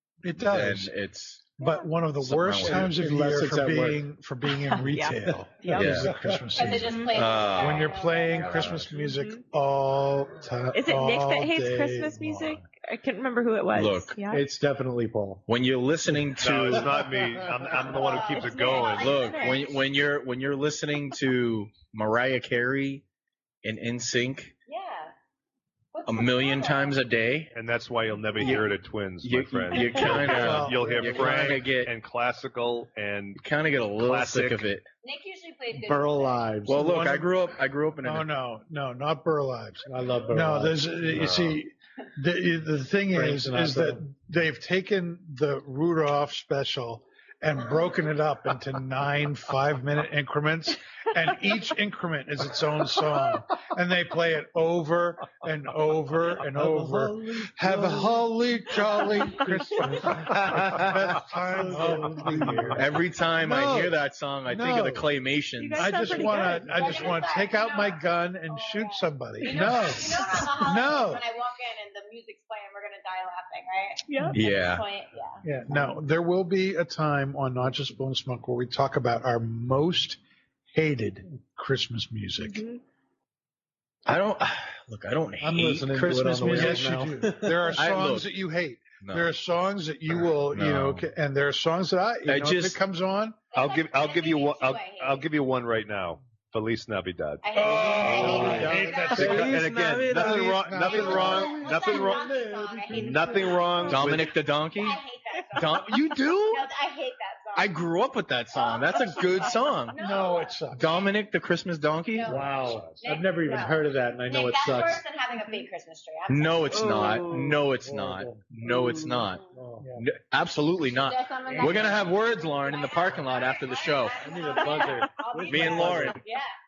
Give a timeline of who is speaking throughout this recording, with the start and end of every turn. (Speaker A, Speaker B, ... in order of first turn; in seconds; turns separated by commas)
Speaker A: 0.2-0.9, Speaker B: 0.4-1.5, Speaker A: 1.6-12.7, Speaker B: 2.2-3.0, Speaker C: 2.6-4.1, Speaker D: 4.7-6.0, Speaker C: 5.3-6.2, Speaker B: 5.7-6.1, Speaker E: 6.5-8.8, Speaker D: 6.8-7.2, Speaker B: 7.1-8.0, Speaker B: 8.5-8.9, Speaker D: 9.0-9.4, Speaker D: 10.7-14.4, Speaker B: 13.7-14.2, Speaker C: 14.3-15.4, Speaker B: 15.5-17.0, Speaker C: 16.1-17.7, Speaker F: 16.4-19.2, Speaker E: 17.9-19.8, Speaker D: 18.4-19.6, Speaker B: 19.0-23.0, Speaker B: 23.6-24.5, Speaker E: 24.7-25.1, Speaker E: 25.9-27.0, Speaker B: 26.1-27.5, Speaker F: 27.5-33.4, Speaker B: 28.4-28.7, Speaker B: 29.2-31.9, Speaker A: 30.1-31.6, Speaker B: 33.4-34.9, Speaker F: 34.0-34.6, Speaker E: 35.0-36.5, Speaker C: 35.7-36.9, Speaker B: 36.7-38.3, Speaker A: 36.7-37.3, Speaker A: 38.0-62.9, Speaker C: 39.9-41.2, Speaker B: 41.2-41.6, Speaker C: 43.1-44.0, Speaker C: 56.4-58.3, Speaker C: 59.3-60.8, Speaker B: 60.6-60.9, Speaker C: 61.5-62.9, Speaker B: 62.8-66.0, Speaker A: 63.4-65.1, Speaker D: 65.6-67.2, Speaker A: 65.8-71.2, Speaker E: 66.3-75.5, Speaker D: 74.1-74.4, Speaker B: 74.3-74.8, Speaker A: 75.4-80.2, Speaker A: 80.7-82.7, Speaker D: 82.4-82.8, Speaker B: 84.1-86.9, Speaker C: 85.4-87.7, Speaker A: 86.4-93.4, Speaker B: 87.7-88.3, Speaker B: 89.0-89.3, Speaker B: 90.1-91.1, Speaker B: 92.3-92.8, Speaker E: 93.5-95.3, Speaker F: 93.5-97.7, Speaker E: 97.4-99.4, Speaker A: 97.5-102.0, Speaker C: 98.0-99.5, Speaker B: 98.0-101.4, Speaker F: 99.2-104.3, Speaker E: 100.8-103.6, Speaker A: 102.9-103.7, Speaker B: 103.9-105.0, Speaker E: 104.7-107.8, Speaker B: 105.5-106.6, Speaker B: 107.5-110.0, Speaker E: 108.5-111.1, Speaker A: 110.0-111.0, Speaker B: 110.7-112.5, Speaker E: 112.1-117.2, Speaker C: 112.3-115.0, Speaker F: 112.6-113.0, Speaker B: 116.3-119.4, Speaker D: 116.7-117.6, Speaker C: 117.8-118.5, Speaker E: 119.3-119.6, Speaker C: 119.5-120.0, Speaker A: 119.8-120.0, Speaker B: 120.0-124.4, Speaker E: 120.9-126.5, Speaker C: 124.2-126.2, Speaker B: 125.5-126.2